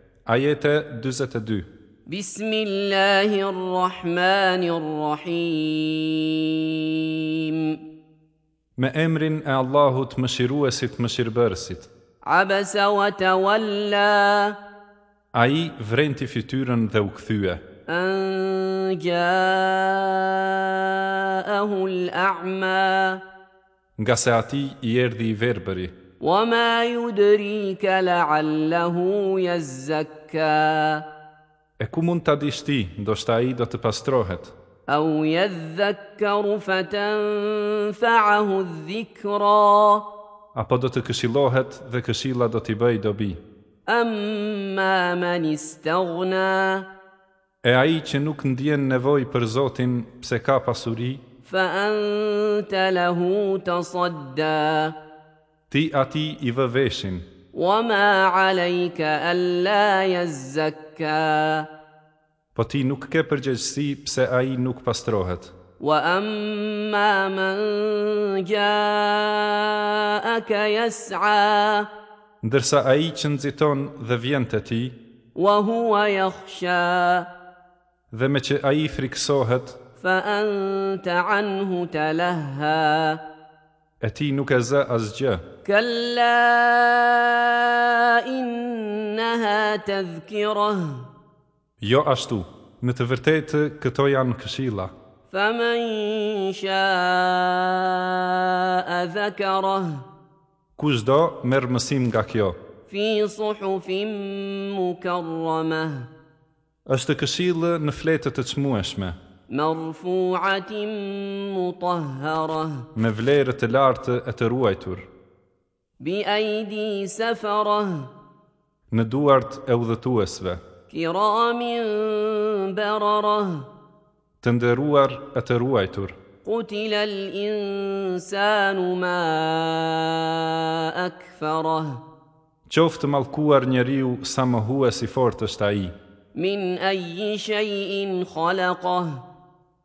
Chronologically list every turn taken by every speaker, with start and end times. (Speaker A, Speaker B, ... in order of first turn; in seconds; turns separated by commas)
Speaker A: 0.2-1.7, Speaker B: 2.1-7.8, Speaker A: 8.8-11.9, Speaker B: 12.2-14.6, Speaker A: 15.3-17.6, Speaker B: 17.9-23.2, Speaker A: 24.0-25.9, Speaker B: 26.2-31.0, Speaker A: 31.8-34.5, Speaker B: 34.9-40.0, Speaker A: 40.5-43.4, Speaker B: 43.9-46.8, Speaker A: 47.6-51.2, Speaker B: 51.4-54.9, Speaker A: 55.7-57.2, Speaker B: 57.5-61.7, Speaker A: 62.5-65.5, Speaker B: 65.8-71.9, Speaker A: 72.4-75.0, Speaker B: 75.3-77.3, Speaker A: 78.1-79.8, Speaker B: 80.0-83.2, Speaker A: 84.0-85.4, Speaker B: 85.6-91.0, Speaker A: 91.8-94.9, Speaker B: 95.3-100.0, Speaker A: 100.8-102.5, Speaker B: 102.9-106.1, Speaker A: 106.9-109.2, Speaker B: 109.5-112.8, Speaker A: 113.0-115.1, Speaker B: 116.0-118.1, Speaker A: 118.9-120.6, Speaker B: 120.9-123.7, Speaker A: 124.4-126.2, Speaker B: 126.4-132.0, Speaker A: 132.7-135.9, Speaker B: 136.3-139.2